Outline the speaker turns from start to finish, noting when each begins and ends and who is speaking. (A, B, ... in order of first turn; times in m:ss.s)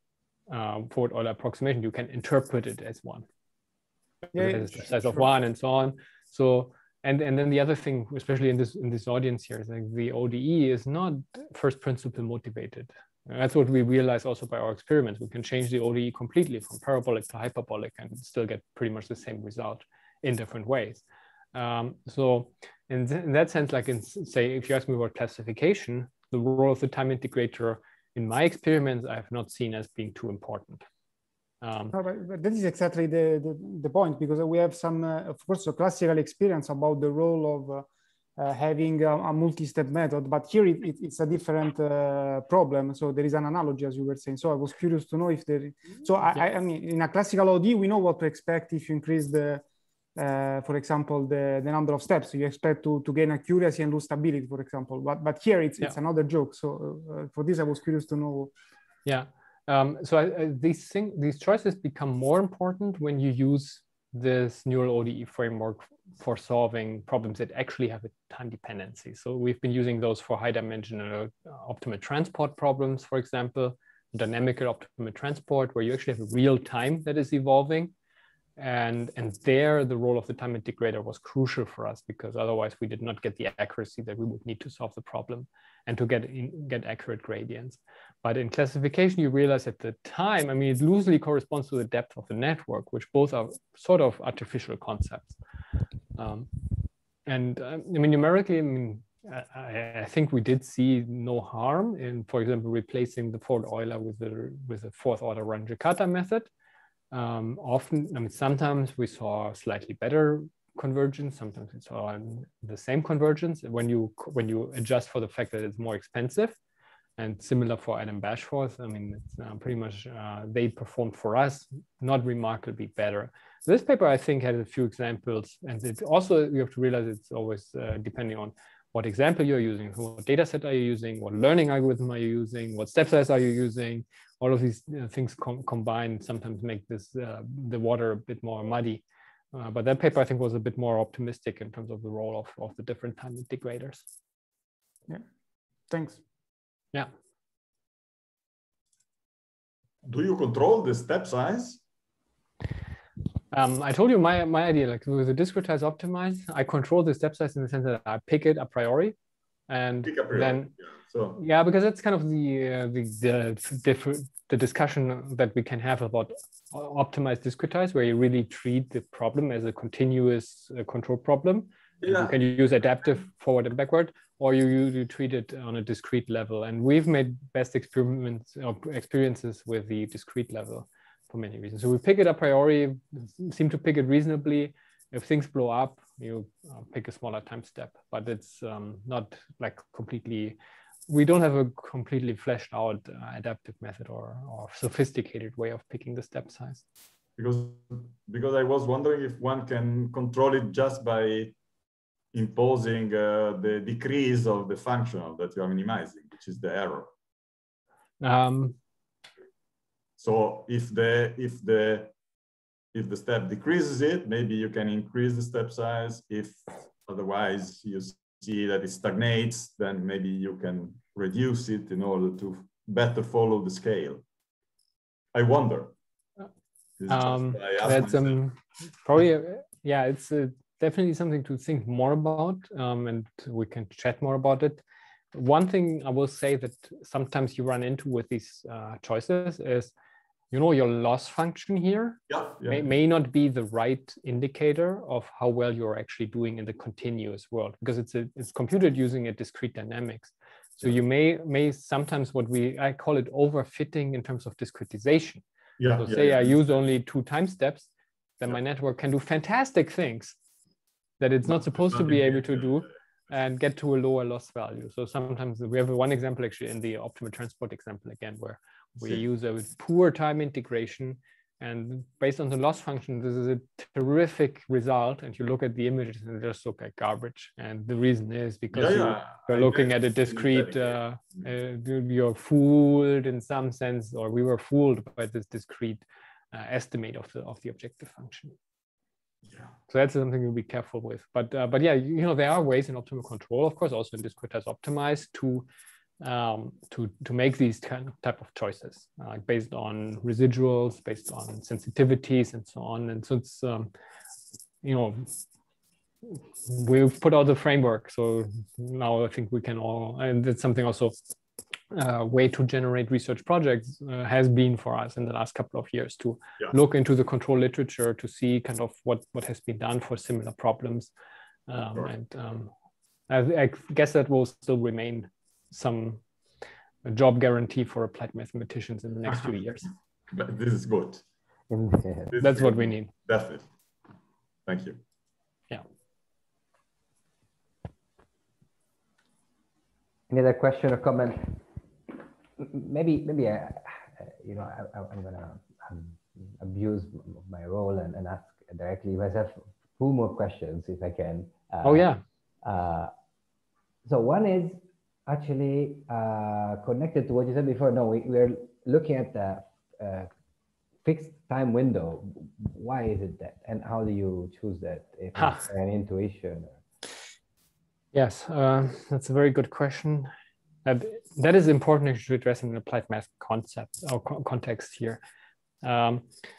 0:00.5-0:03.2 A
0:04.2-0:21.0 A
0:04.3-0:05.2 B
0:21.5-0:30.8 A
0:31.6-0:31.9 A
0:31.9-0:49.6 B
0:50.2-0:58.5 B
0:59.0-1:17.9 A
1:18.6-1:35.4 A
1:36.2-1:36.5 A
1:37.2-1:46.5 A
1:47.1-1:56.6 A
1:57.2-2:24.0 A
2:25.9-2:26.2 B
2:30.0-2:31.8 C
2:33.5-2:39.1 A
2:39.7-2:40.7 A
2:40.0-2:41.4 C
2:41.3-3:16.8 A
2:52.0-2:52.3 C
3:17.4-3:21.5 C
3:22.3-3:27.1 C
3:28.2-3:28.8 A
3:30.2-3:32.1 C
3:32.9-3:44.2 C
3:45.3-3:45.9 C
3:47.0-3:48.4 C
3:47.1-3:54.8 A
3:55.3-3:59.9 A
4:00.5-4:15.4 A
4:02.3-4:02.8 C
4:15.8-4:16.6 C
4:15.9-4:20.4 A
4:21.2-4:48.5 A
4:21.9-4:22.4 C
4:38.7-4:41.0 C
4:49.9-4:55.7 A
4:56.2-5:03.9 A
5:04.8-5:05.4 A
5:06.2-5:11.2 A
5:11.9-5:21.1 A
5:21.7-5:22.7 A
5:23.3-5:26.2 A
5:27.0-5:29.9 A
5:30.3-5:31.2 C
5:31.7-5:32.3 D
5:32.3-5:33.7 C
5:32.4-5:33.1 A
5:34.6-5:35.0 C
5:40.3-5:41.6 D
5:42.6-5:52.0 D
5:51.8-5:52.2 A
5:52.6-5:53.1 D
5:54.0-6:00.3 D
6:01.0-6:06.8 D
6:05.4-6:05.6 A
6:08.1-6:10.3 A
6:10.8-6:15.2 A
6:15.8-6:16.3 A